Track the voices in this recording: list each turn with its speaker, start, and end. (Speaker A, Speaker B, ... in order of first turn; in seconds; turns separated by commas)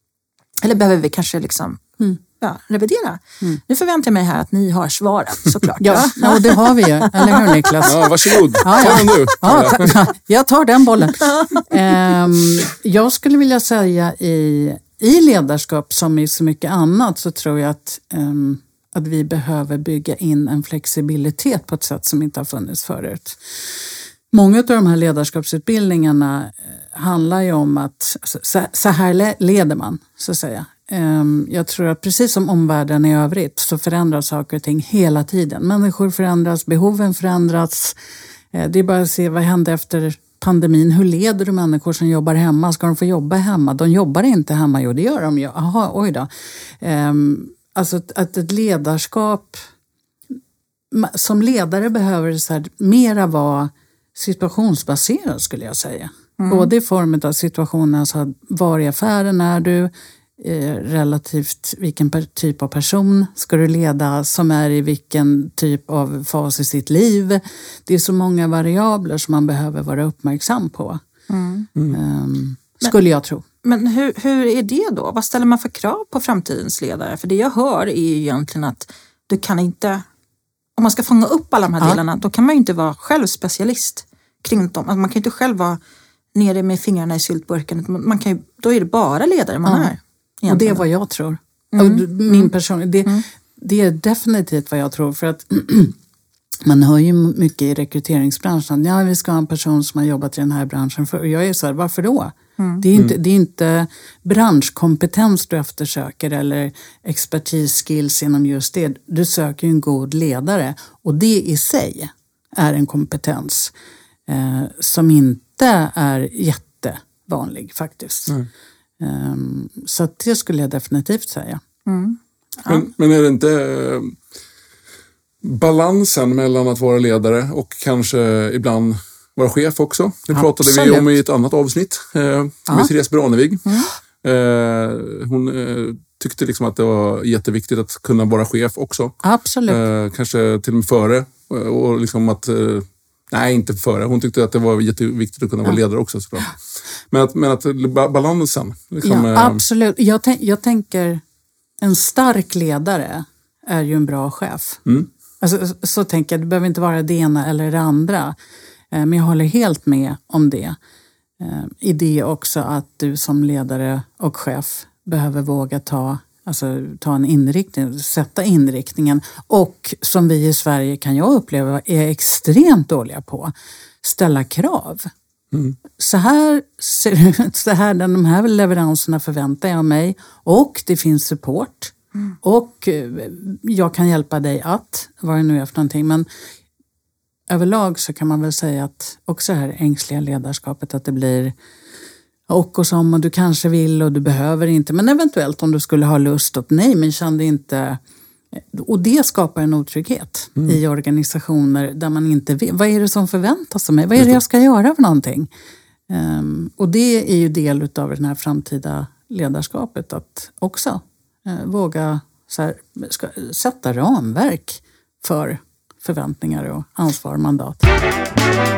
Speaker A: 0.6-1.8, Speaker A: 2.4-9.2, Speaker B: 5.8-23.4, Speaker C: 7.8-9.9, Speaker A: 11.2-11.7, Speaker B: 24.3-38.0, Speaker B: 38.5-49.6, Speaker B: 50.9-71.0, Speaker A: 56.4-56.7, Speaker A: 71.3-71.7, Speaker B: 71.9-73.4, Speaker A: 73.6-80.0, Speaker A: 80.8-85.8, Speaker A: 86.3-90.8, Speaker B: 89.7-89.9, Speaker B: 90.5-96.0, Speaker A: 91.7-92.5, Speaker B: 96.6-113.7, Speaker A: 102.6-102.8, Speaker B: 114.3-118.3, Speaker B: 119.0-121.6, Speaker A: 121.9-122.8, Speaker C: 122.7-124.2, Speaker C: 125.4-133.6, Speaker B: 130.3-131.1, Speaker C: 134.2-146.6, Speaker B: 139.2-139.8, Speaker C: 147.1-149.6, Speaker B: 149.0-151.2, Speaker B: 151.8-154.8, Speaker B: 155.4-158.4, Speaker B: 158.9-160.8, Speaker B: 161.4-175.1, Speaker B: 176.0-186.3, Speaker B: 187.5-191.6, Speaker B: 192.5-198.0, Speaker B: 198.5-205.5, Speaker B: 206.1-217.8